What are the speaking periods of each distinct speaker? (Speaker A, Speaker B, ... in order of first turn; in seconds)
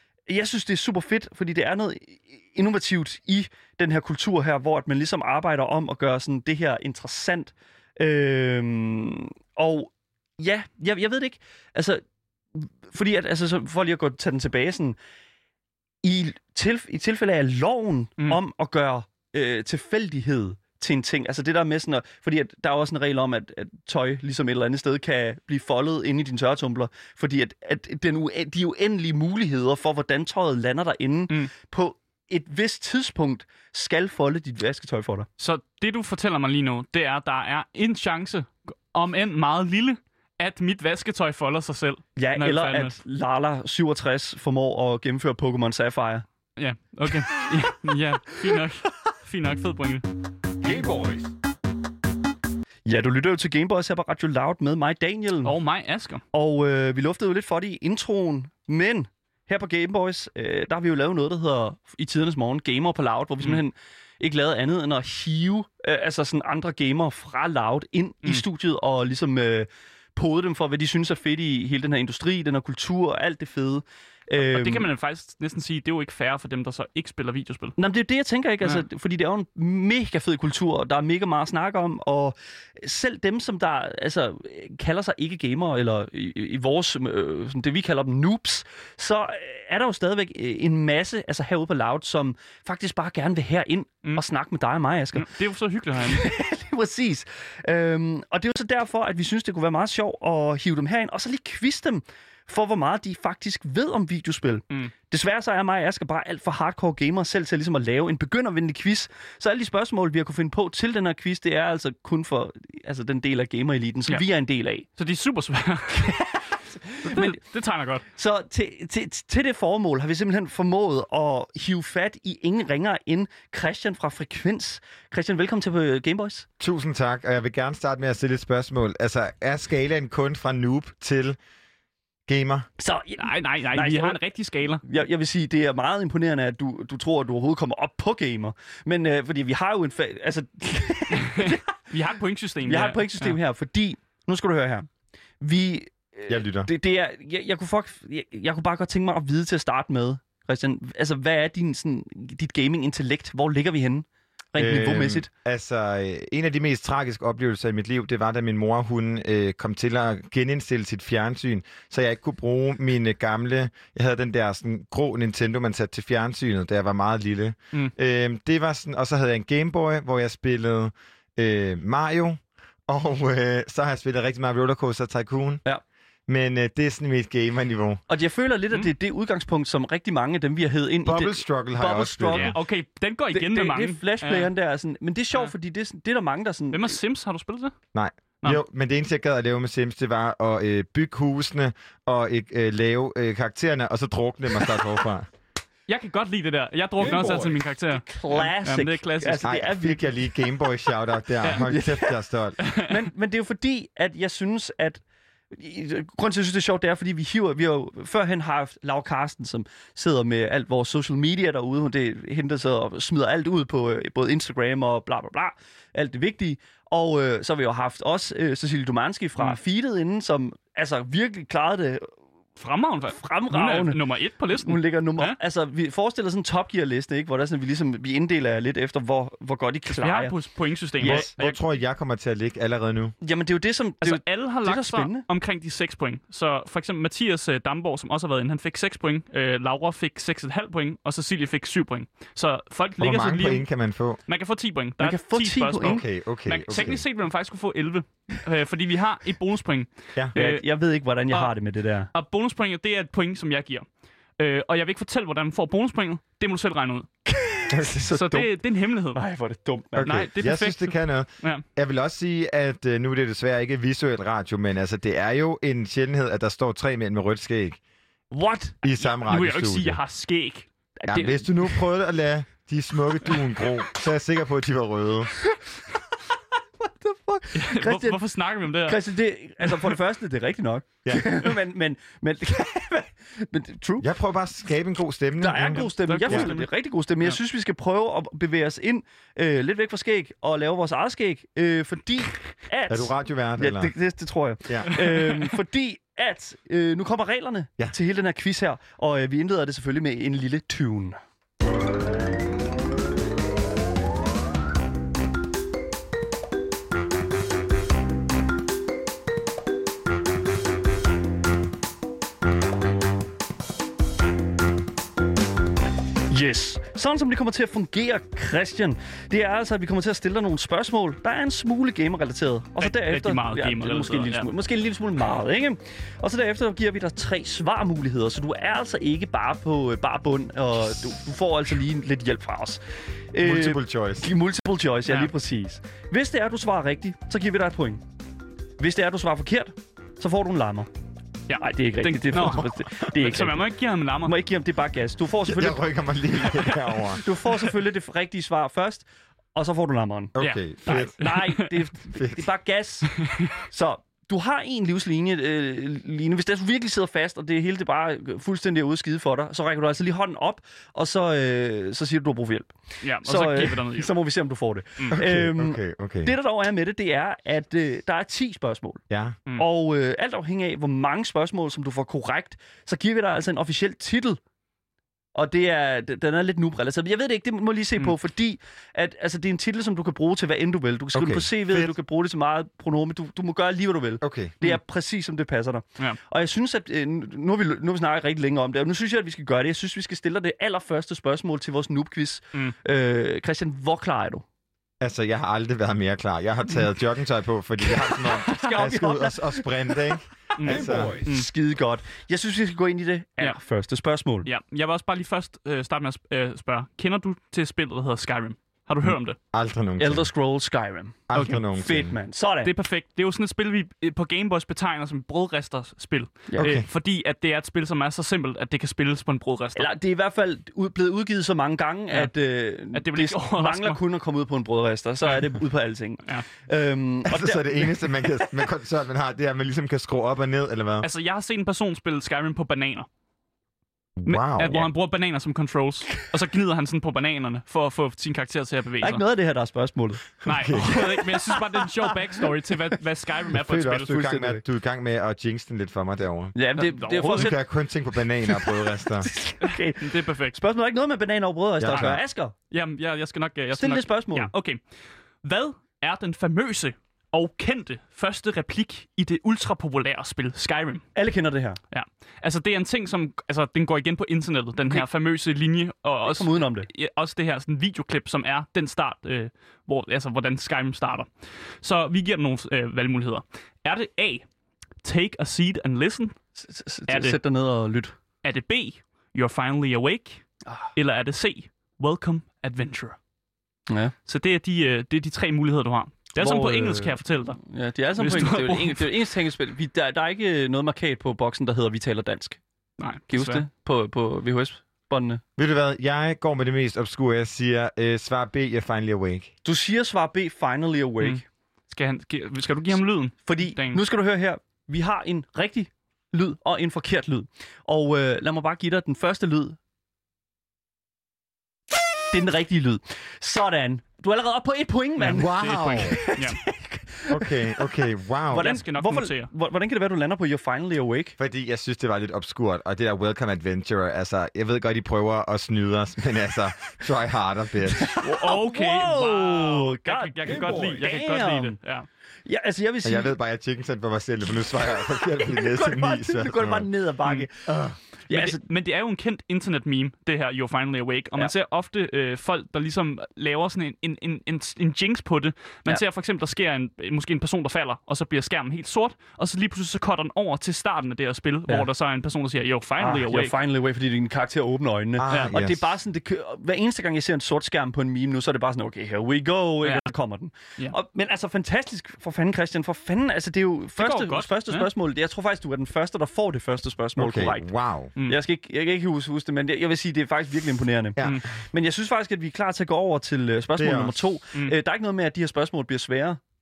Speaker A: 0.3-12.0, 12.5-15.0, 16.0-35.3, 42.2-46.2, 50.7-51.2, 52.9-55.5, 56.3-74.9, 77.8-95.3, 96.0-114.9, 115.9-117.4, 118.1-126.5, 132.8-134.2, 134.8-141.7, 142.6-144.9, 145.4-155.3, 178.1-182.6, 183.3-187.0, 197.0-200.4, 201.4-222.1, 223.1-224.0, 224.6-230.3, 231.0-231.3, 233.2-235.2, 245.0-246.0, 250.3-252.1, 257.3-258.4, 259.1-260.3, 268.3-268.8, 271.0-271.8, 275.4-275.7, 276.8-278.2, 278.8-284.1, 285.4-301.2, 316.3-332.8, 333.3-338.0, 338.8-340.9, 341.5-343.6, 344.2-345.8, 347.0-369.0, 369.6-374.4, 375.3-394.4, 397.8-400.0, 400.6-404.5, 410.0-412.7, 416.5-416.7, 419.8-428.4, 439.0-442.6, 444.1-444.6, 446.5-447.6, 448.4-452.5, 453.7-454.5, 461.1-461.8, 466.2-466.9, 476.6-478.1, 483.9-484.1, 486.4-492.6, 493.3-495.4, 499.6-501.4, 503.4-509.8, 512.3-517.9, 518.5-521.4, 527.9-531.8, 532.5-533.3, 535.4-538.6, 553.0-567.7, 568.2-576.4
Speaker B: 35.4-43.0, 46.6-50.0, 55.4-56.2, 74.4-77.8, 95.1-96.2, 115.0-116.2, 117.0-118.0, 133.2-134.8, 141.1-143.3, 182.3-184.5, 186.7-187.7, 195.9-199.5, 202.6-203.0, 222.6-225.3, 230.0-231.6, 234.0-243.6, 244.3-250.6, 252.1-253.8, 254.4-257.1, 258.1-259.2, 260.0-261.6, 269.2-270.7, 277.5-279.0, 279.6-279.9, 285.7-286.7, 294.9-295.5, 322.8-324.5, 335.1-335.3, 341.5-344.3, 350.4-351.8, 353.2-353.5, 363.0-364.1, 400.6-401.5, 404.4-409.4, 412.6-419.9, 422.9-424.0, 431.0-433.1, 434.3-439.2, 440.4-444.2, 446.8-447.6, 449.6-450.6, 451.9-452.2, 452.7-454.8, 455.4-461.1, 461.9-471.3, 471.8-474.4, 475.0-476.4, 477.1-477.4, 478.4-480.4, 480.9-483.2, 484.3-487.6, 488.2-489.1, 493.0-493.6, 501.2-504.0, 515.2-516.6, 518.5-519.5, 528.2-532.1, 538.3-553.5, 559.8-560.1, 564.0-564.9
Speaker C: 126.6-131.4, 132.3-132.7, 146.3-146.7, 154.6-175.6, 176.3-178.0, 181.0-182.5, 187.9-195.3, 199.4-202.6, 231.0-233.1, 243.0-244.2, 245.8-247.0, 257.7-258.2, 259.9-267.8, 268.8-270.0, 271.1-275.3, 284.0-286.5, 292.9-293.9, 333.4-334.3, 345.4-347.2, 350.4-351.1, 352.1-352.4, 365.1-366.3, 369.1-369.4, 381.1-381.9, 384.2-384.5, 395.0-401.2, 409.5-410.3, 411.3-412.1, 416.6-416.9, 427.2-431.1, 434.2-434.9, 440.4-441.0, 443.5-446.5, 447.2-449.3, 451.8-452.2, 495.6-499.5, 515.3-516.2, 517.3-518.7, 521.4-528.1, 533.0-536.9, 555.2-555.9, 567.1-568.1, 571.2-571.4, 573.8-574.2